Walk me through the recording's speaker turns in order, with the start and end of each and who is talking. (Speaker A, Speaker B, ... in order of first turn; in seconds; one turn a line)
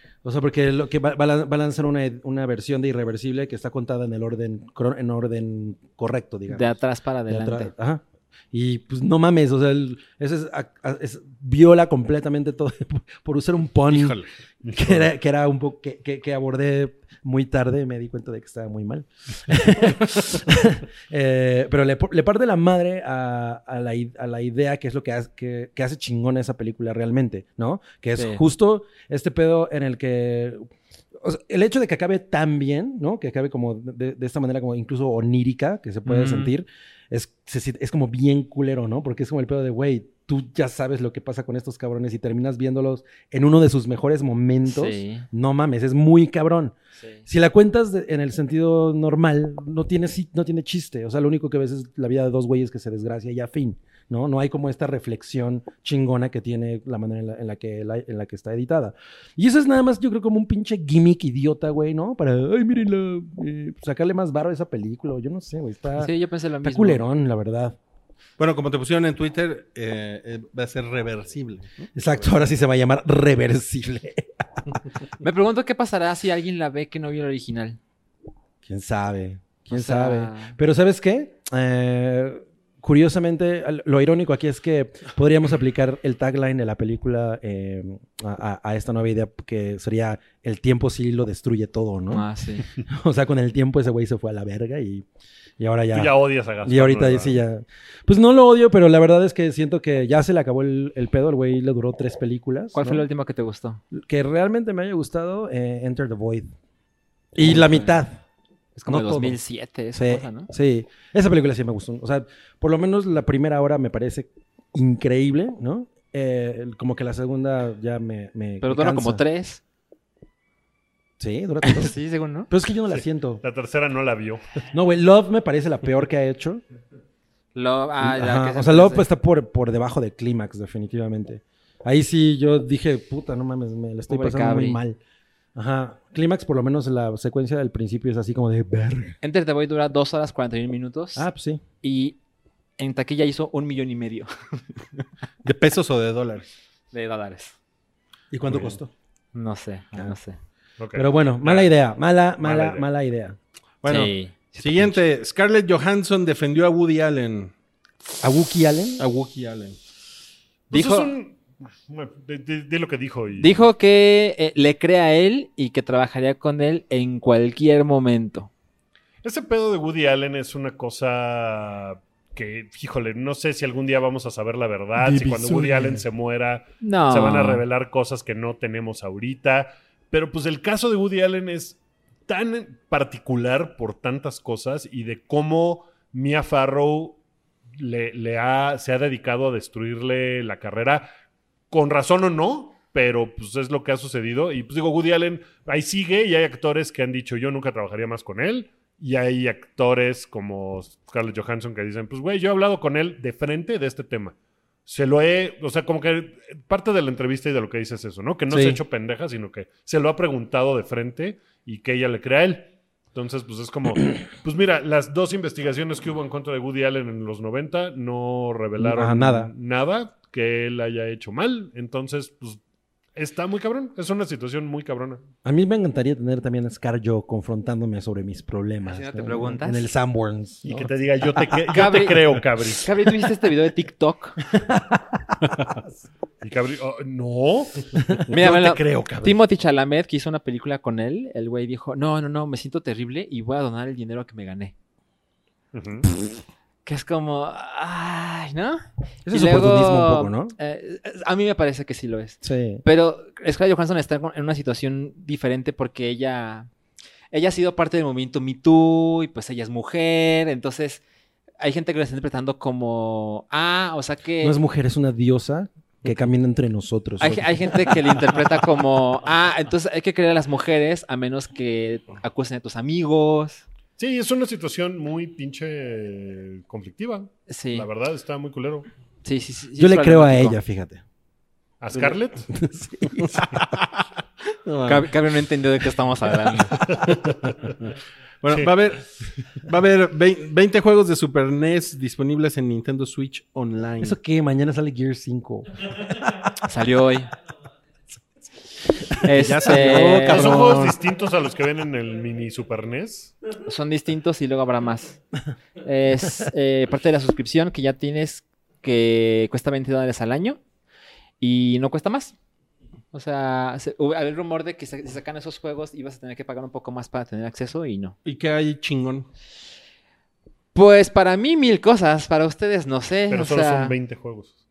Speaker A: 0.2-6.8
Speaker B: 6.5-7.7
Speaker A: 7.3-46.8
Speaker C: 13.9-14.3
Speaker D: 14.6-15.1
Speaker B: 28.2-28.4
Speaker B: 36.0-36.5
Speaker B: 44.7-45.3
Speaker B: 47.0-47.2
Speaker A: 47.3-66.1
Speaker B: 66.0-67.0
Speaker A: 66.6-67.8
Speaker C: 68.4-71.9
Speaker A: 71.9-74.3
Speaker B: 75.2-77.8
Speaker A: 78.6-95.1
Speaker B: 79.7-80.6
Speaker B: 92.1-92.7
Speaker A: 95.6-103.0
Speaker D: 95.9-97.4
Speaker B: 102.7-103.8
Speaker A: 103.9-106.5
Speaker A: 107.3-108.2
Speaker B: 107.4-107.9
Speaker B: 108.8-110.5
Speaker A: 108.9-109.4
Speaker A: 110.0-119.2
Speaker B: 118.6-119.6
Speaker A: 121.2-122.0
Speaker B: 121.6-122.5
Speaker A: 122.5-123.4
Speaker D: 122.9-124.5
Speaker A: 124.7-126.6
Speaker B: 127.5-129.1
Speaker A: 128.0-135.0
Speaker B: 134.1-134.8
Speaker A: 135.6-139.2
Speaker B: 139.2-141.3
Speaker A: 141.2-141.6
Speaker B: 141.8-142.2
Speaker B: 142.8-144.6
Speaker C: 145.4-146.5
Speaker B: 146.9-147.6
Speaker A: 148.3-148.9
Speaker D: 148.5-148.8
Speaker B: 149.3-150.4
Speaker D: 150.8-151.7
Speaker A: 150.9-153.4
Speaker D: 152.4-152.9
Speaker C: 153.8-157.5
Speaker B: 153.9-155.0
Speaker A: 158.2-159.0
Speaker C: 159.0-159.8
Speaker D: 160.7-163.6
Speaker B: 160.7-161.1
Speaker B: 163.4-168.5
Speaker D: 169.2-187.2
Speaker A: 175.0-176.1
Speaker B: 176.8-177.6
Speaker D: 187.8-191.1
Speaker D: 191.7-204.3
Speaker D: 204.9-222.6
Speaker A: 208.5-208.8
Speaker A: 218.8-219.5
Speaker D: 223.2-225.2
Speaker A: 225.4-231.7
Speaker B: 228.8-229.9
Speaker D: 230.7-232.9
Speaker B: 231.7-232.2
Speaker B: 232.8-234.4
Speaker A: 234.5-235.8
Speaker D: 236.4-239.4
Speaker B: 238.3-244.7
Speaker D: 245.7-246.1
Speaker B: 246.8-256.7
Speaker A: 249.3-250.5
Speaker A: 252.4-252.8
Speaker B: 257.3-261.0
Speaker B: 261.6-264.6
Speaker A: 264.4-268.1
Speaker B: 267.2-273.6
Speaker D: 274.0-278.9
Speaker B: 277.5-277.9
Speaker B: 279.2-280.6
Speaker A: 279.8-281.0
Speaker D: 281.8-282.5
Speaker A: 282.5-283.4
Speaker C: 283.4-283.9
Speaker C: 284.6-285.1
Speaker B: 284.9-286.8
Speaker C: 286.9-287.2
Speaker D: 286.9-287.8
Speaker C: 288.4-289.1
Speaker C: 289.6-294.2
Speaker A: 294.0-296.1
Speaker B: 296.6-297.3
Speaker B: 299.2-300.8
Speaker C: 299.2-301.0
Speaker D: 300.0-303.4
Speaker B: 303.6-305.2
Speaker B: 305.8-310.6
Speaker B: 311.4-312.4
Speaker B: 313.1-318.2
Speaker C: 318.2-319.3
Speaker B: 320.7-324.0
Speaker D: 323.3-324.6